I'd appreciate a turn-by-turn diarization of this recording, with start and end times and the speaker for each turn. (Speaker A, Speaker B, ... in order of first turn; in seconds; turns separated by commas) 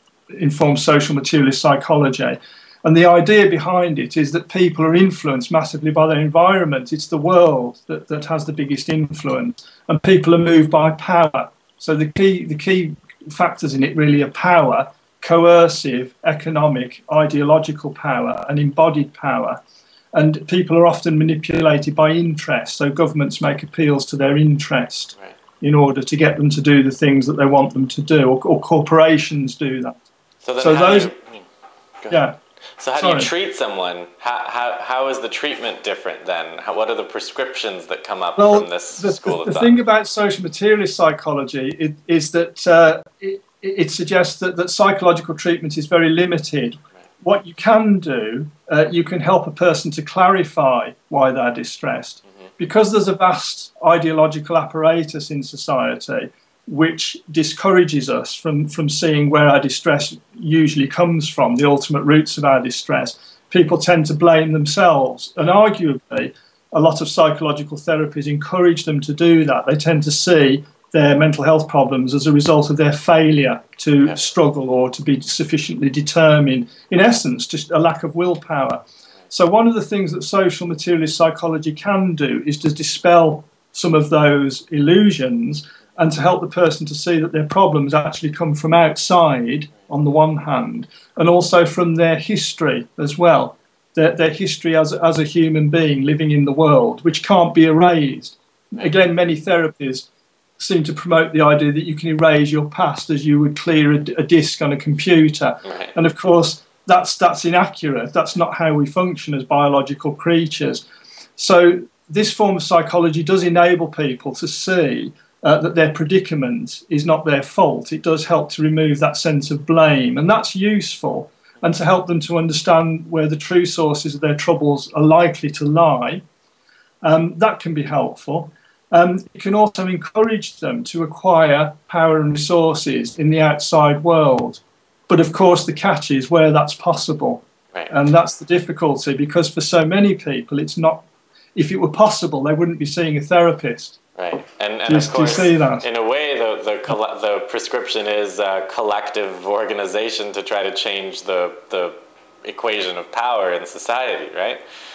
Speaker A: 0.3-19.6, Speaker A: 20.1-30.0, Speaker B: 30.4-31.4, Speaker A: 30.6-31.1, Speaker A: 32.1-32.4, Speaker B: 32.8-39.8, Speaker A: 33.0-33.3, Speaker A: 38.4-100.1, Speaker A: 100.6-110.8, Speaker B: 105.7-105.9, Speaker A: 111.4-126.2, Speaker A: 127.0-144.0, Speaker B: 144.2-154.6, Speaker A: 144.9-145.8